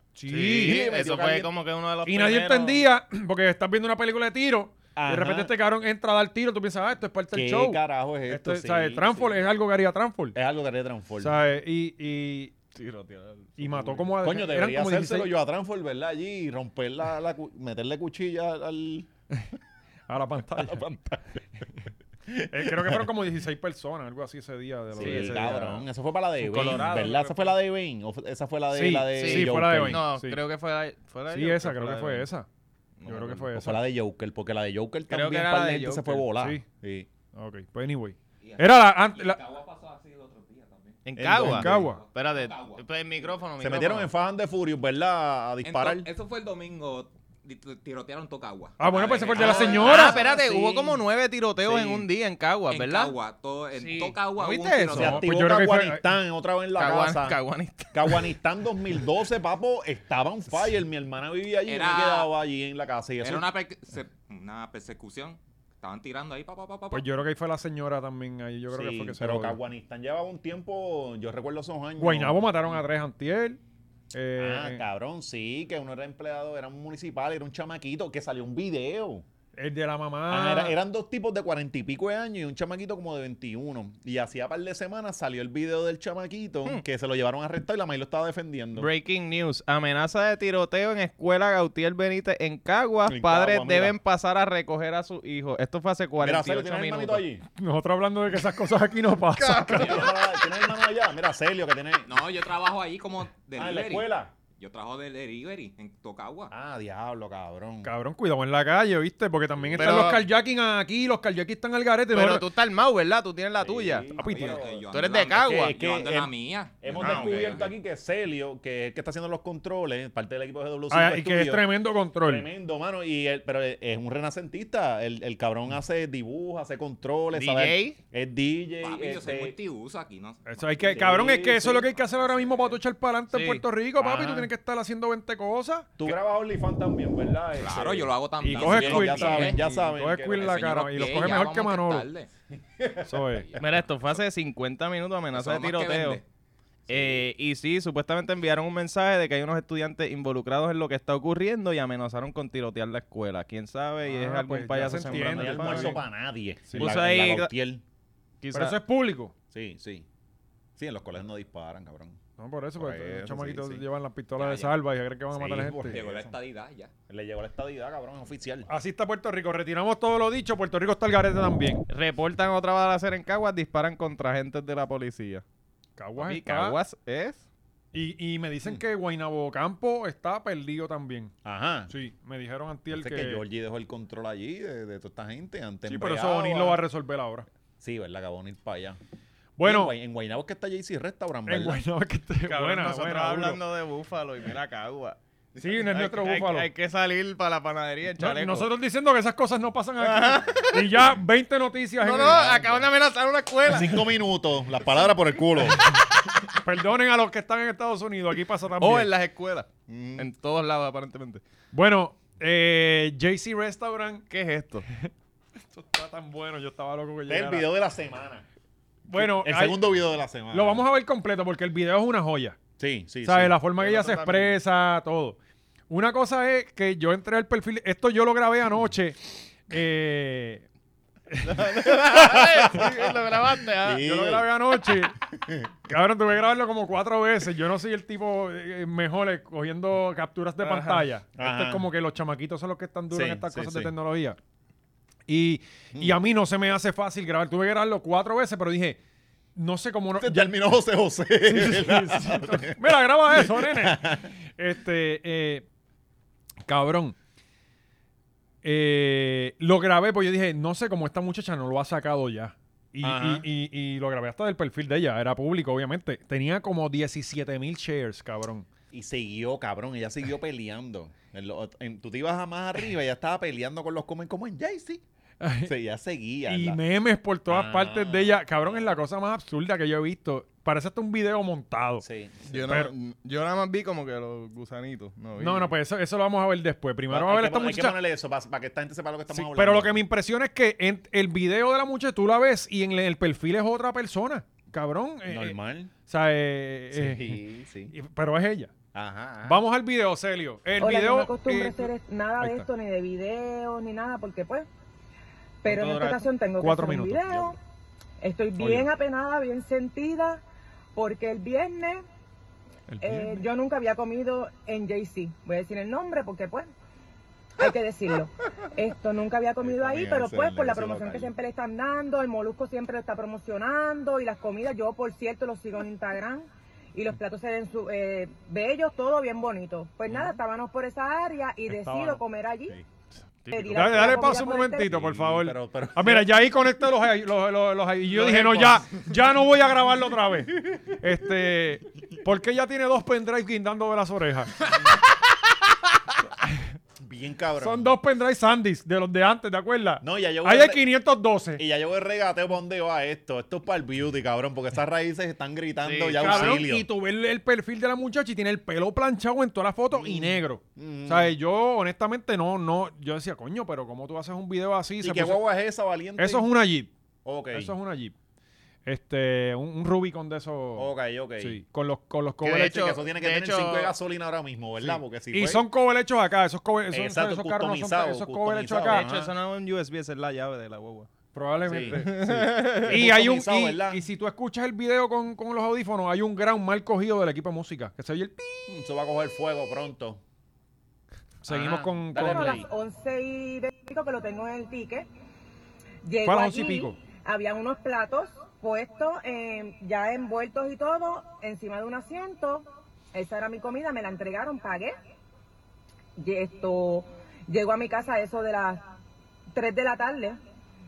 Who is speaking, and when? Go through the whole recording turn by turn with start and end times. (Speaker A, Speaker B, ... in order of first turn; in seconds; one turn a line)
Speaker A: 0.1-0.8
Speaker B: 0.3-2.9
Speaker C: 0.6-1.5
Speaker A: 2.1-10.4
Speaker C: 5.0-5.5
Speaker C: 7.3-9.4
Speaker C: 10.3-11.4
Speaker A: 11.2-12.6
Speaker B: 12.7-14.1
Speaker A: 13.6-15.3
Speaker C: 14.2-19.1
Speaker A: 20.1-20.9
Speaker C: 20.5-21.4
Speaker C: 22.3-23.1
Speaker A: 22.5-25.5
Speaker B: 25.0-25.9
Speaker C: 25.0-30.0
Speaker B: 26.4-27.6
Speaker A: 26.6-27.1
Speaker A: 28.7-30.4
Speaker B: 29.1-32.3
Speaker A: 31.3-32.5
Speaker B: 33.0-33.6
Speaker A: 33.1-33.8
Speaker C: 33.6-37.1
Speaker B: 35.1-36.3
Speaker A: 36.4-36.6
Speaker A: 37.4-39.4
Speaker D: 38.4-41.1
Speaker B: 41.1-44.1
Speaker C: 41.2-41.9
Speaker A: 41.3-42.0
Speaker D: 41.7-43.3
Speaker C: 43.6-46.1
Speaker D: 45.6-50.8
Speaker A: 48.8-50.2
Speaker C: 49.3-51.0
Speaker B: 49.8-53.1
Speaker C: 51.6-52.1
Speaker D: 52.7-55.2
Speaker B: 53.8-55.2
Speaker A: 54.5-56.1
Speaker C: 55.0-57.4
Speaker B: 56.8-58.4
Speaker C: 57.9-63.5
Speaker D: 61.6-62.3
Speaker D: 63.2-67.0
Speaker A: 66.9-69.6
Speaker C: 68.7-72.7
Speaker A: 72.0-73.6
Speaker A: 74.1-74.8
Speaker C: 74.4-79.2
Speaker A: 79.6-80.8
Speaker C: 80.3-88.9
Speaker B: 88.8-97.2
Speaker C: 93.1-94.0
Speaker C: 96.2-97.4
Speaker A: 97.6-100.0
Speaker B: 99.4-100.5
Speaker C: 99.7-102.1
Speaker D: 102.1-106.5
Speaker C: 103.5-104.3
Speaker C: 106.5-107.9
Speaker A: 107.8-112.5
Speaker C: 109.6-110.2
Speaker B: 109.8-110.2
Speaker B: 112.1-114.1
Speaker C: 113.6-121.7
Speaker A: 114.2-114.6
Speaker D: 114.2-117.7
Speaker B: 114.9-115.8
Speaker B: 117.0-117.7
Speaker A: 120.9-122.5
Speaker C: 122.2-129.6
Speaker B: 127.3-128.0
Speaker D: 128.8-130.8
Speaker A: 130.5-135.9
Speaker C: 130.7-132.5
Speaker B: 133.3-133.6
Speaker C: 134.0-134.5
Speaker C: 136.0-141.3
Speaker D: 137.5-139.7
Speaker A: 138.4-142.1
Speaker D: 140.4-142.3
Speaker C: 142.8-143.6
Speaker A: 143.1-143.5
Speaker B: 143.6-146.2
Speaker D: 145.3-146.2
Speaker C: 146.9-147.2
Speaker B: 146.9-156.0
Speaker A: 154.1-156.0
Speaker C: 155.1-157.8
Speaker A: 156.7-157.0
Speaker B: 156.8-157.5
Speaker B: 158.4-158.8
Speaker A: 158.5-159.3
Speaker C: 159.5-160.1
Speaker C: 160.8-162.2
Speaker A: 162.4-166.0
Speaker C: 162.8-163.8
Speaker D: 164.4-164.8
Speaker C: 165.3-166.4
Speaker D: 165.9-166.9
Speaker C: 167.1-168.7
Speaker A: 168.7-171.8
Speaker B: 171.9-175.4
Speaker A: 176.0-176.8
Speaker B: 176.2-177.4
Speaker A: 177.9-181.3
Speaker C: 181.4-181.9
Speaker A: 181.9-183.4
Speaker C: 182.9-186.8
Speaker A: 185.9-187.5
Speaker C: 187.8-189.0
Speaker A: 189.6-189.9
Speaker C: 189.6-191.8
Speaker A: 191.5-193.6
Speaker B: 192.5-195.2
Speaker C: 195.6-196.1
Speaker A: 195.6-196.7
Speaker B: 195.9-198.7
Speaker A: 198.2-202.5
Speaker B: 200.0-201.1
Speaker B: 202.0-204.0
Speaker C: 202.2-202.8
Speaker C: 203.7-205.9
Speaker A: 206.5-209.1
Speaker B: 208.8-211.4
Speaker C: 209.9-210.3
Speaker A: 211.7-214.3
Speaker B: 214.3-214.9
Speaker A: 215.7-217.7
Speaker C: 217.3-218.4
Speaker A: 219.1-219.8
Speaker C: 219.1-220.9
Speaker A: 220.5-222.6
Speaker C: 222.8-223.6
Speaker A: 223.2-225.4
Speaker B: 223.8-224.6
Speaker A: 225.9-230.6
Speaker A: 231.3-231.6
Speaker B: 231.4-234.3
Speaker C: 232.1-233.1
Speaker C: 233.8-235.7
Speaker A: 234.0-235.2
Speaker A: 235.8-244.4
Speaker B: 240.6-241.1
Speaker C: 241.4-241.9
Speaker C: 243.1-243.9
Speaker A: 245.3-249.0
Speaker A: 249.6-250.5
Speaker C: 250.2-254.3
Speaker A: 251.4-255.7
Speaker A: 256.7-257.2
Speaker A: 258.6-268.7
Speaker C: 263.0-263.5
Speaker C: 268.9-275.0
Speaker A: 275.4-275.7
Speaker C: 275.6-276.8
Speaker A: 276.5-282.1
Speaker C: 277.5-278.9
Speaker C: 282.0-282.6
Speaker B: 282.5-285.7
Speaker A: 285.4-288.0
Speaker C: 287.1-290.0
Speaker A: 289.3-297.4
Speaker C: 295.3-295.9
Speaker C: 296.9-297.9
Speaker A: 297.9-298.7
Speaker C: 298.9-299.6
Speaker A: 299.4-302.7
Speaker E: 300.8-304.7
Speaker E: 305.6-307.6
Speaker B: 305.7-306.3
Speaker A: 306.6-307.6
Speaker E: 308.2-310.4
Speaker A: 308.6-308.9
Speaker E: 310.9-312.0
Speaker A: 312.9-313.4
Speaker E: 313.0-316.7
Speaker E: 317.6-332.8
Speaker C: 319.6-321.3
Speaker A: 331.7-332.2
Speaker B: 333.4-334.2
Speaker E: 333.5-334.9
Speaker A: 333.7-344.6
Speaker C: 334.9-336.3
Speaker C: 338.1-339.2
Speaker C: 347.0-348.0
Speaker A: 347.6-351.6
Speaker C: 350.0-350.9
Speaker C: 351.6-356.9
Speaker B: 355.8-356.6
Speaker A: 356.2-365.4
Speaker C: 359.9-361.4
Speaker C: 365.0-366.5
Speaker A: 366.2-366.9
Speaker C: 367.2-367.7
Speaker A: 367.5-368.1
Speaker A: 368.9-372.8
Speaker C: 370.8-371.6
Speaker B: 372.4-373.9
Speaker C: 372.5-375.6
Speaker A: 375.3-379.1
Speaker C: 376.9-379.3
Speaker B: 378.9-381.1
Speaker A: 381.3-388.7
Speaker C: 381.7-384.1
Speaker B: 381.9-383.0
Speaker C: 388.7-390.2
Speaker A: 391.4-392.6
Speaker C: 391.5-392.7
Speaker E: 392.2-395.1
Speaker E: 396.0-404.9
Speaker A: 396.2-397.0
Speaker E: 406.2-408.9
Speaker E: 409.5-410.4